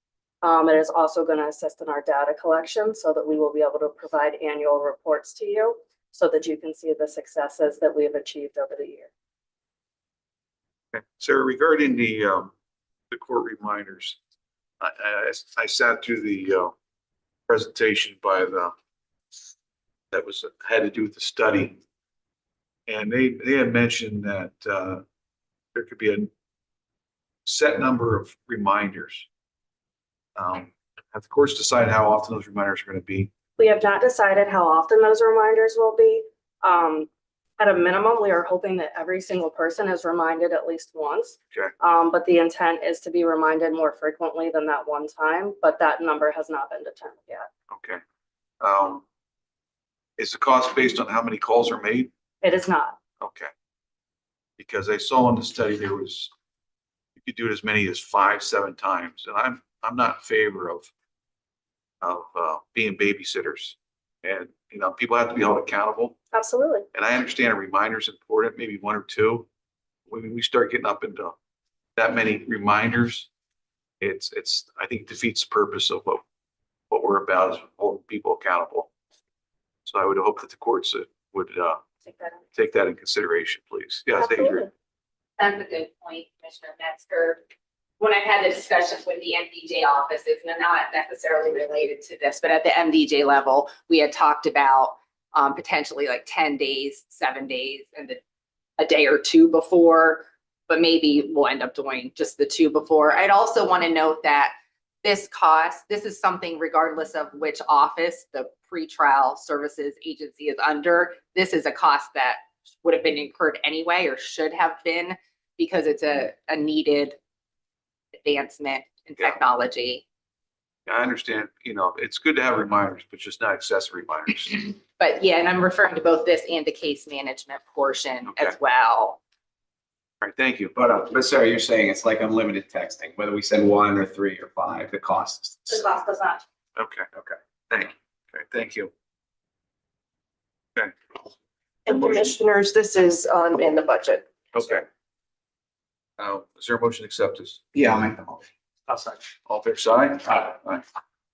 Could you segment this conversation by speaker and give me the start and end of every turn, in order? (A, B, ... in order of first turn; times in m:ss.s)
0:00.4-0:09.1 A
0:10.9-0:12.5 B
0:13.1-0:14.2 B
0:14.8-0:16.7 B
0:17.5-0:18.7 B
0:20.1-0:21.8 B
0:22.9-0:25.0 B
0:25.8-0:26.3 B
0:27.4-0:29.3 B
0:30.4-0:33.3 B
0:33.6-0:47.5 A
0:47.7-0:48.0 B
0:48.6-0:49.0 B
0:50.2-0:52.1 B
0:52.4-0:53.0 A
0:53.2-0:53.5 B
0:54.6-0:56.3 B
0:57.2-1:00.9 B
1:02.0-1:06.2 B
1:06.3-1:06.9 A
1:06.9-1:09.5 B
1:10.1-1:11.4 B
1:12.0-1:13.3 B
1:14.0-1:16.2 B
1:16.9-1:18.9 B
1:19.9-1:21.8 B
1:22.1-1:22.4 A
1:22.5-1:24.7 B
1:24.2-1:24.7 A
1:25.4-1:27.4 C
1:28.0-1:38.2 C
1:38.8-1:57.2 C
1:58.2-2:00.0 C
2:00.9-2:04.7 B
2:05.0-2:09.2 C
2:08.3-2:08.6 B
2:10.2-2:10.7 B
2:10.7-2:15.8 D
2:15.7-2:16.4 A
2:16.8-2:17.1 B
2:17.7-2:18.9 B
2:21.9-2:24.4 E
2:21.9-2:22.2 B
2:24.5-2:24.8 B
2:26.2-2:27.6 B
2:27.7-2:28.4 D
2:29.4-2:30.8 B